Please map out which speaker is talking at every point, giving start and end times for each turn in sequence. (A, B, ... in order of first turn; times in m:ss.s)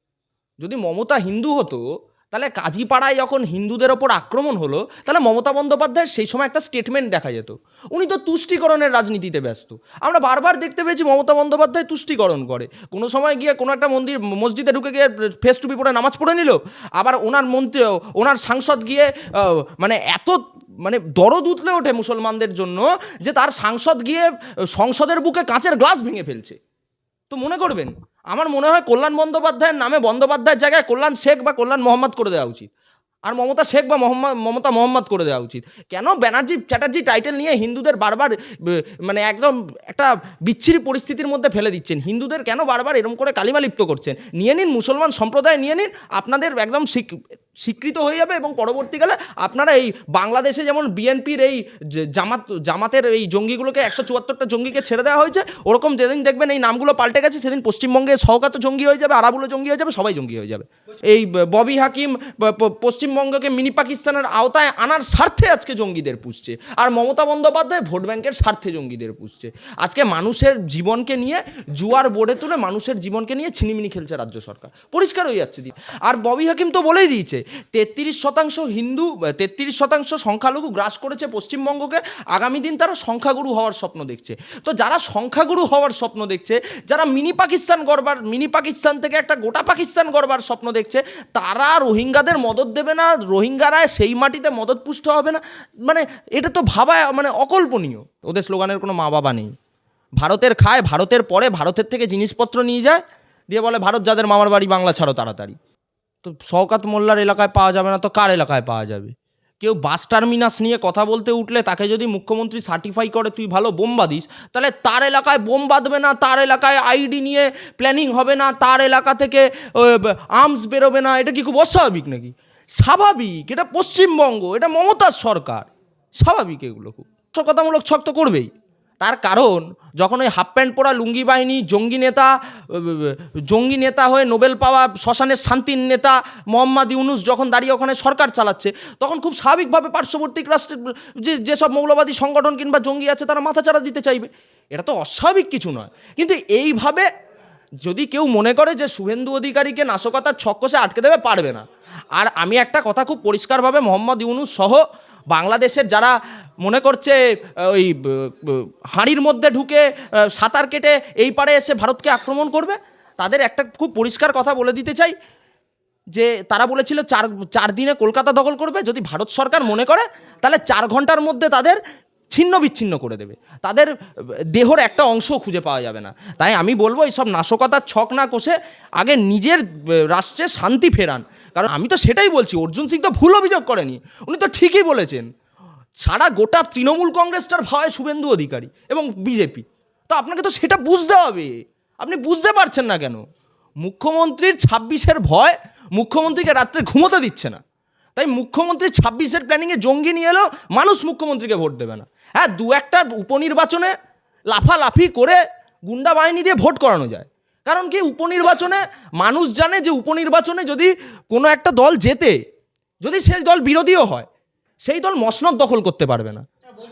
0:00.6-0:01.8 A
0:02.3-0:26.6 A
0:27.3-0:32.7 A
0:33.3-1:39.5 A
1:40.2-1:45.6 A
1:46.2-2:08.5 A
2:09.0-2:27.1 A
2:27.8-2:31.6 A
2:32.2-2:45.2 A
2:46.1-2:51.8 A
2:52.3-2:53.9 A
2:54.5-3:05.3 A
3:06.0-3:13.2 A
3:13.8-3:17.6 A
3:18.2-3:23.9 A
3:24.5-3:32.4 A
3:33.0-3:34.3 A
3:34.8-3:36.4 A